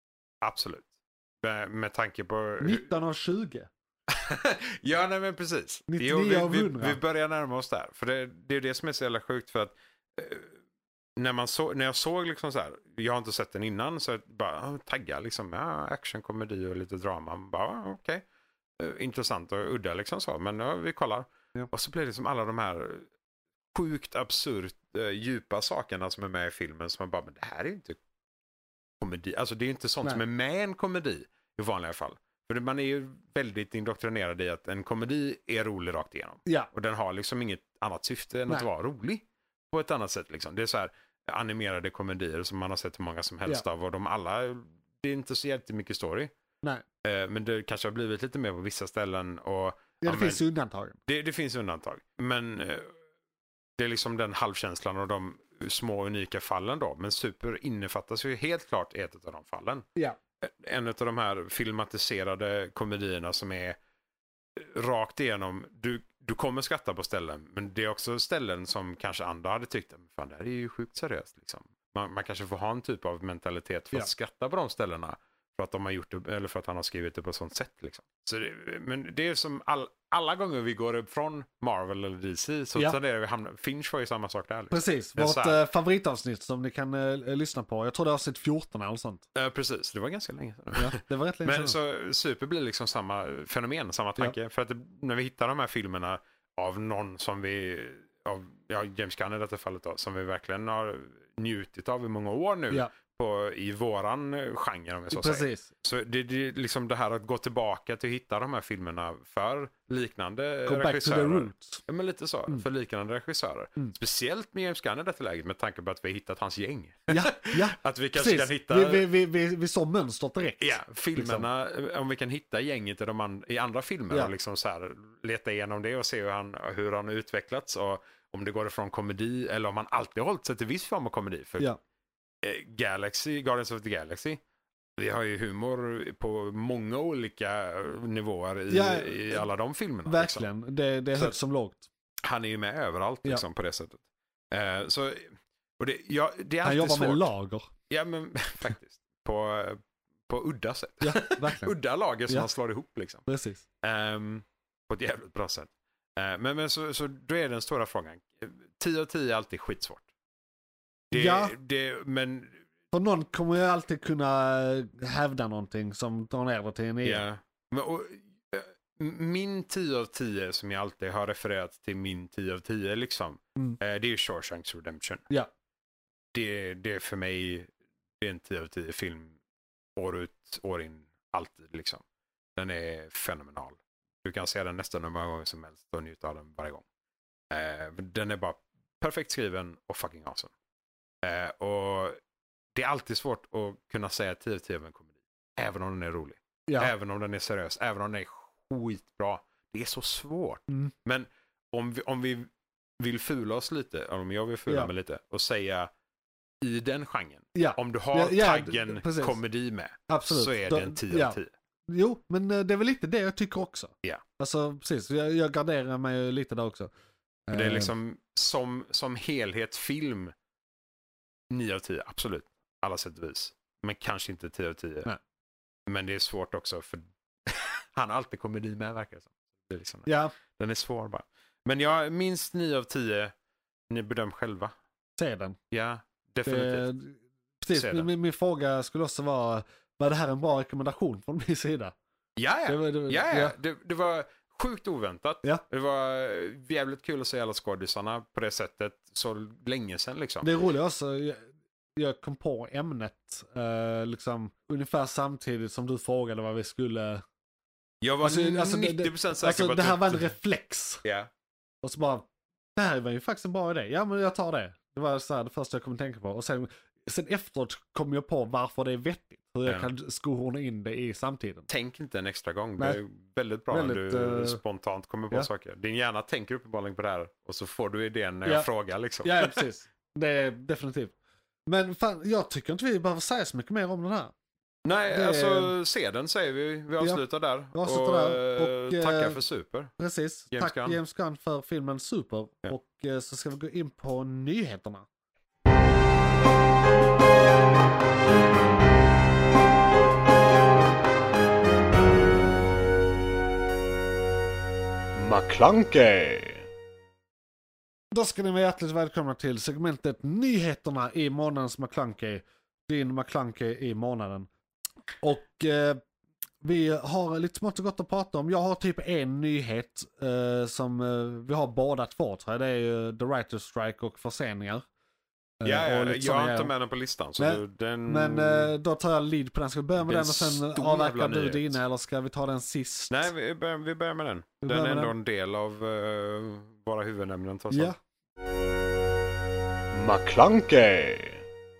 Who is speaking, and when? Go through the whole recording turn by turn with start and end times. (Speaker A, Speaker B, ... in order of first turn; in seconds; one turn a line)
Speaker A: 0.4-0.9
Speaker A: 1.4-2.8
Speaker B: 2.6-3.7
Speaker A: 4.1-10.6
Speaker B: 5.9-7.0
Speaker A: 11.2-18.2
Speaker A: 18.8-23.1
Speaker A: 23.7-28.0
Speaker A: 29.0-46.3
Speaker B: 36.5-36.7
Speaker A: 47.0-50.4
Speaker B: 50.0-51.0
Speaker A: 51.0-52.9
Speaker A: 53.8-59.9
Speaker A: 60.4-63.8
Speaker A: 64.6-85.6
Speaker B: 84.7-89.2
Speaker A: 89.3-119.0
Speaker B: 90.7-91.8
Speaker B: 105.1-105.7
Speaker B: 110.7-111.8
Speaker B: 117.1-121.5
Speaker A: 120.6-131.7
Speaker A: 132.4-134.4
Speaker A: 135.0-140.5
Speaker B: 138.7-139.5
Speaker B: 140.1-141.9
Speaker A: 142.2-147.3
Speaker B: 146.6-147.7
Speaker A: 147.9-153.2
Speaker B: 151.0-151.7
Speaker B: 153.3-153.6
Speaker A: 153.8-160.1
Speaker A: 161.1-162.6
Speaker B: 161.1-161.5
Speaker B: 162.9-167.2
Speaker A: 167.0-175.2
Speaker A: 176.3-179.4
Speaker A: 179.9-182.0
Speaker A: 182.6-186.8
Speaker A: 187.5-190.5
Speaker A: 191.2-192.2
Speaker A: 192.7-202.5
Speaker B: 196.7-196.9
Speaker A: 203.0-205.9
Speaker A: 206.6-211.5
Speaker B: 207.5-209.4
Speaker B: 210.1-216.9
Speaker B: 217.5-217.9
Speaker A: 217.5-220.3
Speaker A: 221.5-225.1
Speaker A: 225.9-233.3
Speaker B: 230.1-230.3
Speaker A: 233.9-234.7
Speaker B: 235.2-235.6
Speaker A: 235.7-236.9
Speaker B: 236.4-241.9
Speaker A: 237.7-238.1
Speaker A: 242.4-250.5
Speaker B: 242.7-243.5
Speaker B: 250.4-251.4
Speaker B: 251.9-257.2
Speaker A: 258.0-260.3
Speaker B: 258.2-261.0
Speaker A: 261.0-261.3
Speaker B: 261.8-271.7
Speaker A: 269.6-269.9
Speaker A: 271.7-279.6
Speaker B: 273.7-274.6
Speaker B: 279.2-281.1
Speaker B: 281.7-284.3
Speaker A: 284.8-289.9
Speaker B: 285.1-285.7
Speaker B: 287.7-289.4
Speaker B: 290.0-295.1
Speaker A: 290.5-291.0
Speaker C: 305.1-306.7
Speaker B: 308.1-314.5
Speaker B: 315.2-316.0
Speaker B: 316.6-324.8
Speaker B: 325.6-326.7
Speaker A: 325.6-328.7
Speaker B: 327.4-333.3
Speaker A: 330.0-331.8
Speaker A: 333.1-337.9
Speaker B: 334.6-335.1
Speaker B: 337.7-338.0
Speaker C: 339.9-341.4